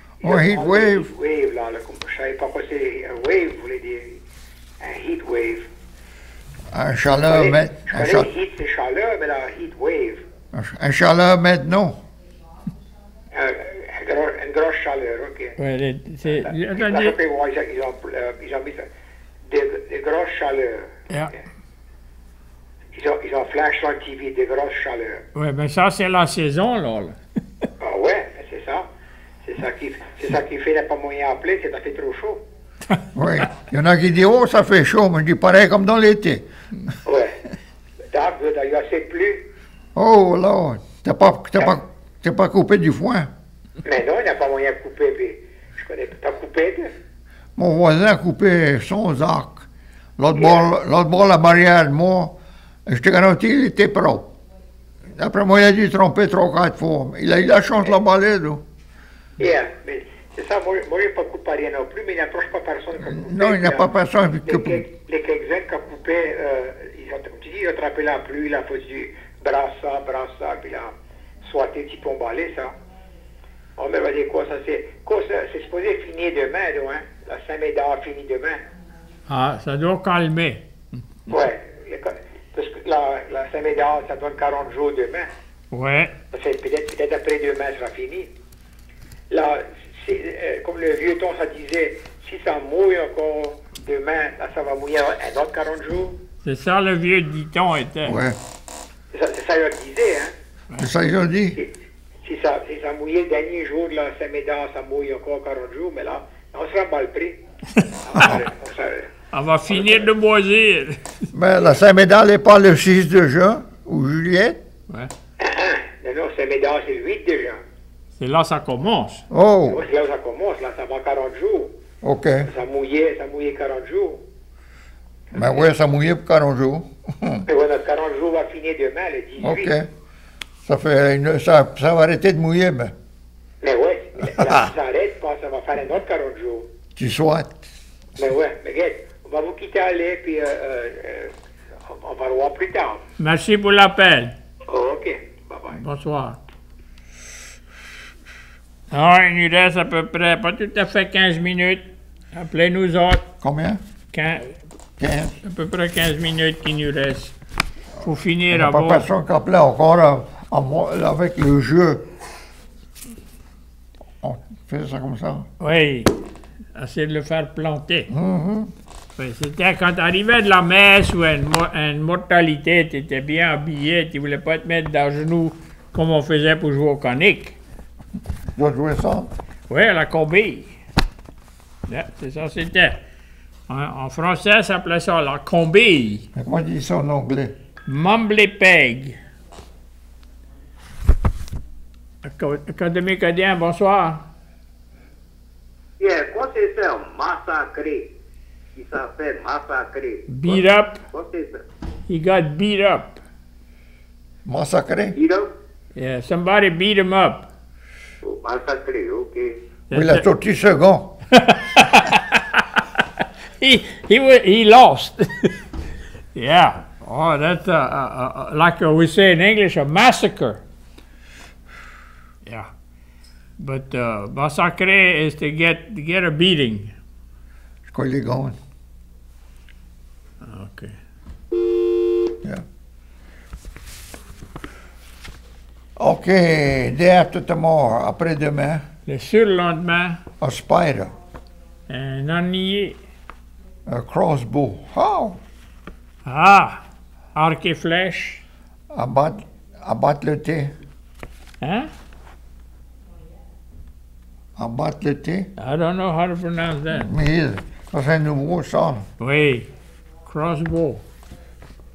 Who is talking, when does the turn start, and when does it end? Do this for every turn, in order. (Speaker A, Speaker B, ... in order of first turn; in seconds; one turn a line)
Speaker A: 0.2-1.1
Speaker B: 0.2-4.2
Speaker B: 4.8-5.6
Speaker A: 6.7-8.3
Speaker B: 7.3-10.2
Speaker A: 10.5-12.0
Speaker B: 13.3-15.5
Speaker C: 15.6-17.2
Speaker B: 16.5-18.8
Speaker B: 19.5-20.9
Speaker B: 22.9-25.2
Speaker C: 25.3-27.2
Speaker B: 27.8-28.8
Speaker B: 29.4-32.4
Speaker A: 33.1-36.5
Speaker B: 37.0-37.4
Speaker B: 38.1-39.4
Speaker A: 39.9-43.3
Speaker B: 43.8-46.9
Speaker A: 47.5-54.3
Speaker B: 50.4-50.6
Speaker A: 55.1-58.6
Speaker B: 59.4-63.9
Speaker A: 63.0-64.9
Speaker B: 64.5-70.9
Speaker B: 71.4-72.7
Speaker B: 73.8-78.6
Speaker C: 79.3-80.6
Speaker B: 81.3-85.3
Speaker C: 85.7-86.2
Speaker B: 86.3-88.3
Speaker B: 89.3-96.2
Speaker C: 96.4-98.2
Speaker A: 98.0-98.4
Speaker B: 99.1-100.3
Speaker A: 100.8-101.6
Speaker B: 102.2-107.4
Speaker C: 107.8-108.5
Speaker B: 108.1-109.1
Speaker C: 109.3-111.1
Speaker A: 111.3-114.6
Speaker B: 115.4-117.6
Speaker C: 118.2-119.2
Speaker A: 119.3-119.8
Speaker B: 119.7-121.7
Speaker A: 122.0-122.5
Speaker B: 122.5-124.2
Speaker A: 125.3-127.5
Speaker B: 127.5-129.7
Speaker A: 129.4-129.9
Speaker A: 130.6-132.9
Speaker B: 133.6-136.7
Speaker A: 134.3-134.7
Speaker A: 136.9-137.7
Speaker B: 138.2-141.3
Speaker B: 141.9-143.0
Speaker C: 143.2-144.3
Speaker B: 144.7-145.8
Speaker C: 145.7-146.4
Speaker C: 148.9-153.2
Speaker A: 153.4-153.8
Speaker C: 154.1-154.6
Speaker A: 155.0-155.4
Speaker C: 155.4-157.3
Speaker C: 158.0-159.1
Speaker A: 158.5-162.1
Speaker A: 164.2-165.5
Speaker C: 165.6-166.1
Speaker C: 166.7-168.1
Speaker A: 168.1-168.7
Speaker C: 169.2-177.6
Speaker A: 178.5-179.3
Speaker C: 179.7-180.8
Speaker C: 181.9-183.0
Speaker C: 183.7-186.3
Speaker A: 186.3-187.5
Speaker C: 187.9-189.2
Speaker C: 192.2-194.2
Speaker D: 196.0-198.1
Speaker D: 198.8-201.6
Speaker C: 200.3-201.0
Speaker C: 202.1-203.2
Speaker A: 204.4-205.2
Speaker D: 205.1-205.5
Speaker C: 205.9-207.5
Speaker D: 208.2-209.6
Speaker C: 209.9-210.2
Speaker A: 209.9-211.2
Speaker C: 211.3-212.6
Speaker C: 213.6-215.6
Speaker C: 216.3-220.6
Speaker C: 223.6-226.9
Speaker A: 227.9-228.6
Speaker C: 230.4-230.9
Speaker A: 236.0-238.8
Speaker C: 239.1-240.2
Speaker A: 240.4-241.1
Speaker C: 241.9-243.0
Speaker A: 243.8-245.4
Speaker C: 246.2-246.8
Speaker C: 247.3-248.4
Speaker A: 248.9-250.7
Speaker C: 251.6-251.9
Speaker A: 254.6-255.5
Speaker C: 255.6-257.1
Speaker A: 256.9-259.1
Speaker C: 259.2-259.7
Speaker C: 260.2-261.0